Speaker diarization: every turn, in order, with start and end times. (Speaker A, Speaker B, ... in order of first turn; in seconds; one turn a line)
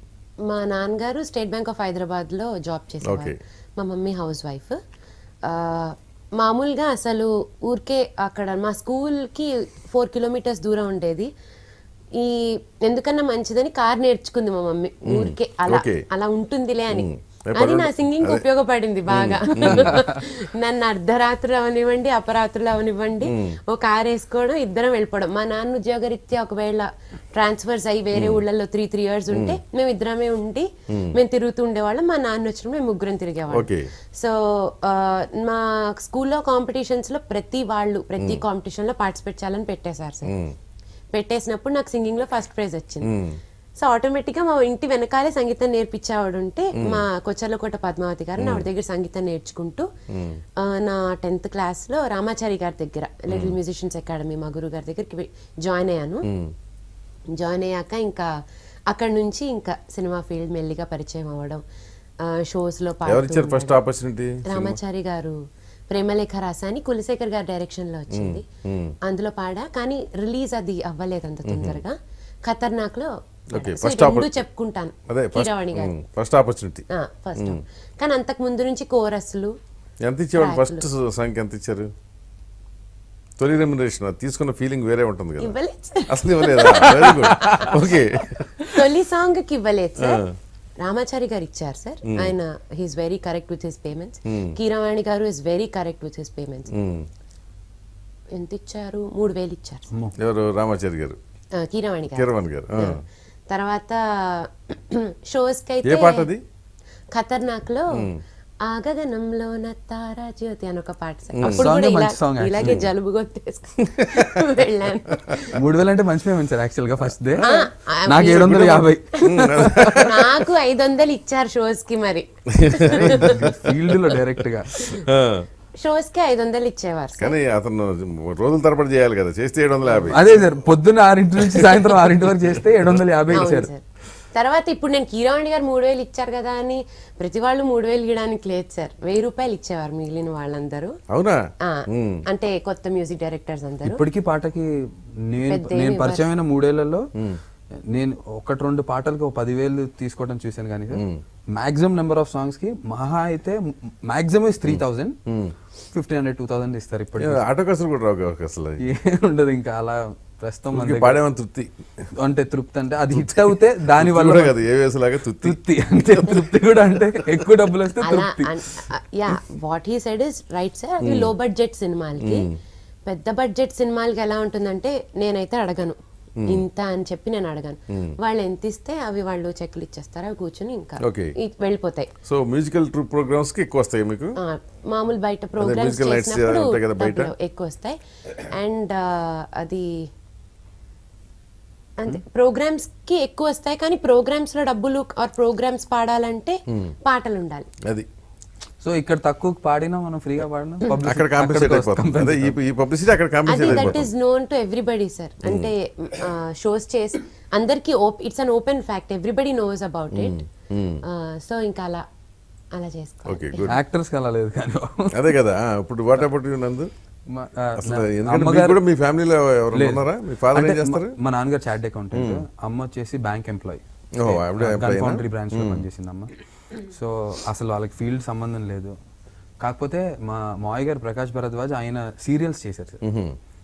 Speaker A: 0.5-4.8
Speaker B: 3.1-3.4
Speaker A: 5.5-11.3
Speaker A: 12.2-40.3
Speaker B: 15.1-16.0
Speaker B: 16.9-18.4
Speaker B: 19.1-20.0
Speaker C: 19.6-20.1
Speaker B: 23.3-23.6
Speaker B: 28.1-28.4
Speaker B: 29.3-29.6
Speaker B: 30.9-31.2
Speaker B: 33.5-33.9
Speaker B: 40.3-40.5
Speaker A: 41.1-43.1
Speaker B: 43.0-43.4
Speaker A: 43.8-49.9
Speaker B: 46.8-47.0
Speaker B: 48.4-48.6
Speaker B: 50.1-50.4
Speaker A: 50.6-56.2
Speaker B: 53.3-53.6
Speaker B: 56.3-56.5
Speaker A: 57.4-58.3
Speaker A: 58.9-61.6
Speaker A: 62.2-63.8
Speaker B: 63.1-64.8
Speaker A: 64.5-65.4
Speaker A: 65.9-68.5
Speaker B: 68.1-68.9
Speaker A: 69.1-75.9
Speaker B: 71.5-71.8
Speaker B: 73.5-74.4
Speaker B: 75.1-76.8
Speaker A: 76.9-79.5
Speaker B: 77.4-77.6
Speaker B: 80.0-81.9
Speaker A: 80.4-80.8
Speaker B: 83.4-85.6
Speaker A: 85.4-88.0
Speaker B: 86.1-88.4
Speaker C: 87.4-87.7
Speaker A: 88.7-90.2
Speaker A: 90.8-96.7
Speaker B: 94.3-94.5
Speaker B: 96.7-97.1
Speaker A: 98.3-99.9
Speaker B: 100.2-101.2
Speaker A: 101.6-103.0
Speaker B: 102.1-103.0
Speaker A: 103.5-106.3
Speaker B: 105.8-106.4
Speaker A: 107.1-108.1
Speaker B: 108.0-108.2
Speaker A: 108.7-115.6
Speaker B: 111.4-111.7
Speaker C: 111.4-112.8
Speaker B: 112.6-112.9
Speaker B: 114.2-114.4
Speaker C: 115.5-117.5
Speaker A: 117.4-123.6
Speaker C: 118.1-120.0
Speaker B: 118.2-120.4
Speaker B: 122.6-124.0
Speaker C: 122.9-124.7
Speaker B: 124.7-125.5
Speaker A: 125.8-127.4
Speaker B: 127.2-130.3
Speaker A: 129.9-130.2
Speaker C: 130.1-133.7
Speaker B: 131.4-132.4
Speaker A: 133.3-133.8
Speaker A: 134.3-140.9
Speaker B: 141.1-142.2
Speaker A: 141.6-144.0
Speaker C: 143.8-144.7
Speaker C: 145.3-147.1
Speaker A: 145.4-146.2
Speaker C: 147.9-155.2
Speaker B: 150.9-151.2
Speaker B: 154.7-155.5
Speaker C: 155.9-157.4
Speaker B: 157.2-158.8
Speaker C: 158.8-161.2
Speaker B: 160.7-161.7
Speaker C: 162.2-164.6
Speaker B: 163.1-167.1
Speaker C: 165.4-168.6
Speaker A: 168.0-172.5
Speaker B: 171.0-171.3
Speaker B: 172.2-172.5
Speaker A: 173.1-182.1
Speaker B: 181.0-181.3
Speaker B: 182.3-184.4
Speaker A: 184.4-189.9
Speaker B: 185.6-187.3
Speaker A: 192.0-197.7
Speaker C: 198.8-202.6
Speaker B: 201.0-204.1
Speaker A: 203.5-210.4
Speaker C: 203.6-204.0
Speaker B: 205.4-205.7
Speaker B: 210.1-211.0
Speaker A: 211.1-212.0
Speaker A: 212.8-213.7
Speaker B: 213.3-213.8
Speaker C: 213.7-215.3
Speaker B: 215.1-216.9
Speaker C: 217.3-218.8
Speaker B: 217.8-221.2
Speaker C: 219.7-228.9
Speaker B: 222.1-222.4
Speaker B: 224.2-225.8
Speaker C: 229.6-233.0
Speaker B: 233.0-233.4